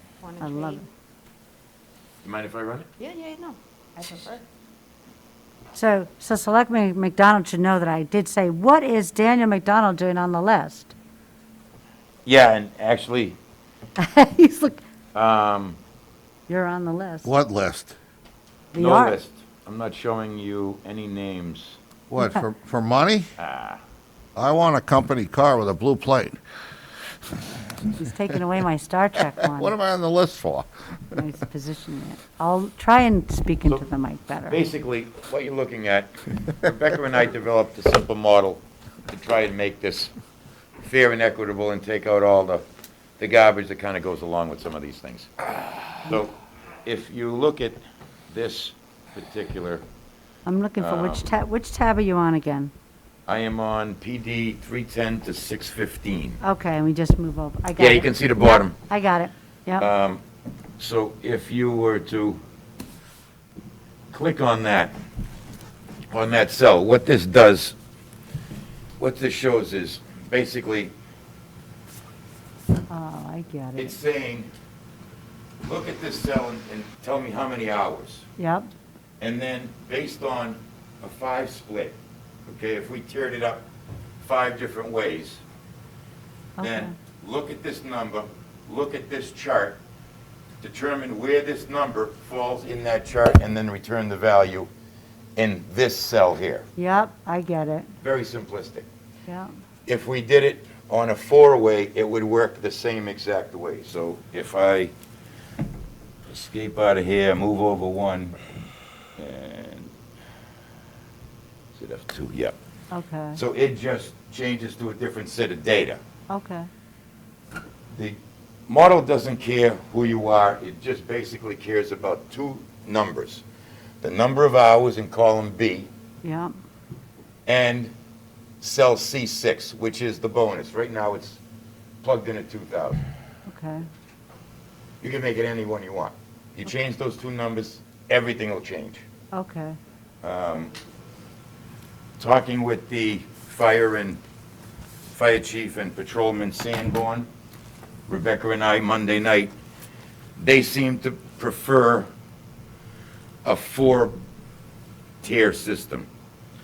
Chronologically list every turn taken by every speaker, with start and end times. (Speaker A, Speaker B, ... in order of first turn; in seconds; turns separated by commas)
Speaker A: 0.2-0.9, Speaker B: 0.4-0.8, Speaker C: 2.2-2.9, Speaker A: 3.0-4.4, Speaker B: 5.7-10.9, Speaker C: 12.2-13.4, Speaker B: 14.0-14.8, Speaker C: 15.1-15.8, Speaker B: 16.5-17.3, Speaker D: 17.2-17.9, Speaker B: 18.7-19.2, Speaker C: 18.8-21.8, Speaker D: 22.1-23.3, Speaker C: 23.4-23.8, Speaker D: 24.4-26.4, Speaker B: 28.0-29.7, Speaker D: 29.4-30.7, Speaker B: 31.1-34.6, Speaker C: 34.5-40.1, Speaker C: 40.8-42.6, Speaker C: 43.2-46.3, Speaker C: 46.8-49.8, Speaker B: 50.5-52.7, Speaker C: 50.8-51.2, Speaker C: 53.3-56.4, Speaker B: 56.4-59.9, Speaker C: 57.8-58.8, Speaker C: 59.8-60.2, Speaker C: 60.8-62.4, Speaker C: 64.1-65.0, Speaker C: 66.1-67.8, Speaker C: 69.0-70.9, Speaker B: 72.9-74.0, Speaker C: 73.8-74.5, Speaker C: 75.6-78.3, Speaker B: 78.4-78.7, Speaker C: 79.2-83.7, Speaker C: 84.2-85.4, Speaker B: 86.6-86.9, Speaker C: 86.6-89.8, Speaker C: 90.6-94.7, Speaker C: 95.4-96.7, Speaker B: 96.8-97.9, Speaker C: 98.0-98.9, Speaker C: 99.9-104.9, Speaker C: 106.3-108.4, Speaker C: 109.2-109.9, Speaker C: 111.7-112.6, Speaker B: 112.9-113.4, Speaker C: 113.3-116.0, Speaker B: 116.3-116.7, Speaker C: 117.9-123.4, Speaker C: 124.0-125.9, Speaker B: 126.2-126.5, Speaker C: 127.5-127.9, Speaker C: 128.6-131.4, Speaker C: 132.0-133.0, Speaker B: 133.5-133.8, Speaker C: 135.0-139.0, Speaker B: 139.3-139.8, Speaker C: 140.2-140.7, Speaker C: 142.2-144.2, Speaker C: 145.1-147.3, Speaker C: 148.1-149.5, Speaker C: 150.4-152.1, Speaker C: 153.4-154.2, Speaker C: 155.2-156.1